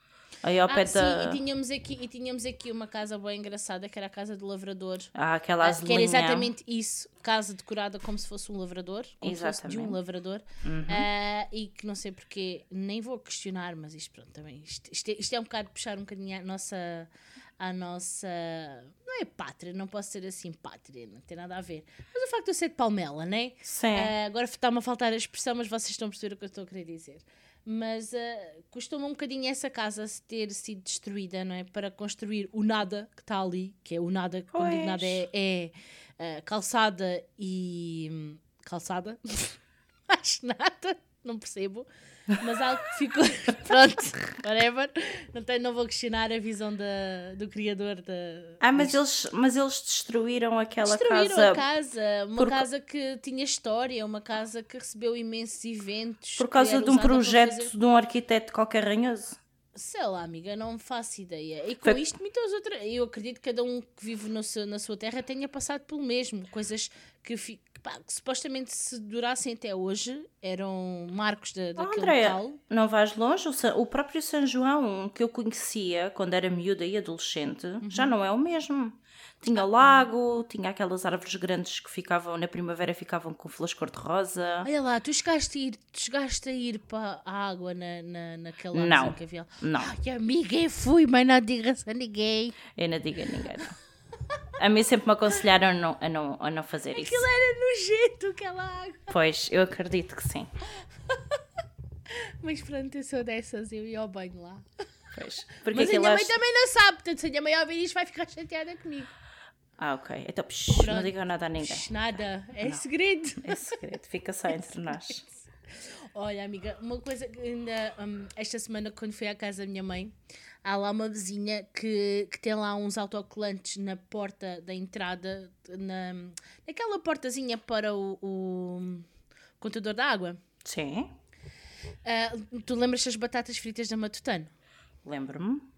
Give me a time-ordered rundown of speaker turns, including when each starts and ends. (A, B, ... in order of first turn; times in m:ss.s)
0:00.4-0:01.4 A
0:00.7-0:49.0 B
0:05.1-0:06.5 A
0:09.2-0:10.0 A
0:10.6-0:11.1 A
0:23.6-0:24.1 A
0:34.5-0:35.3 A
0:48.6-0:51.6 A
0:50.8-0:57.7 B
0:52.4-0:52.7 A
0:56.4-0:59.4 A
0:59.8-1:12.6 B
1:11.8-1:24.7 A
1:17.8-1:18.1 B
1:19.5-1:20.1 B
1:24.6-1:32.6 B
1:28.7-1:29.9 A
1:32.8-1:33.7 A
1:34.6-1:37.3 A
1:36.9-1:39.1 B
1:39.1-1:40.5 A
1:41.1-1:41.4 B
1:42.1-1:44.6 B
1:45.1-1:46.3 A
1:45.7-1:49.1 B
1:49.8-1:51.9 A
1:50.8-1:53.8 B
1:53.4-1:55.2 A
1:54.5-1:55.1 B
1:55.7-2:00.1 B
2:00.6-2:09.1 B
2:09.6-2:10.4 B
2:10.6-2:11.1 A
2:12.0-2:14.5 B
2:15.0-2:15.7 A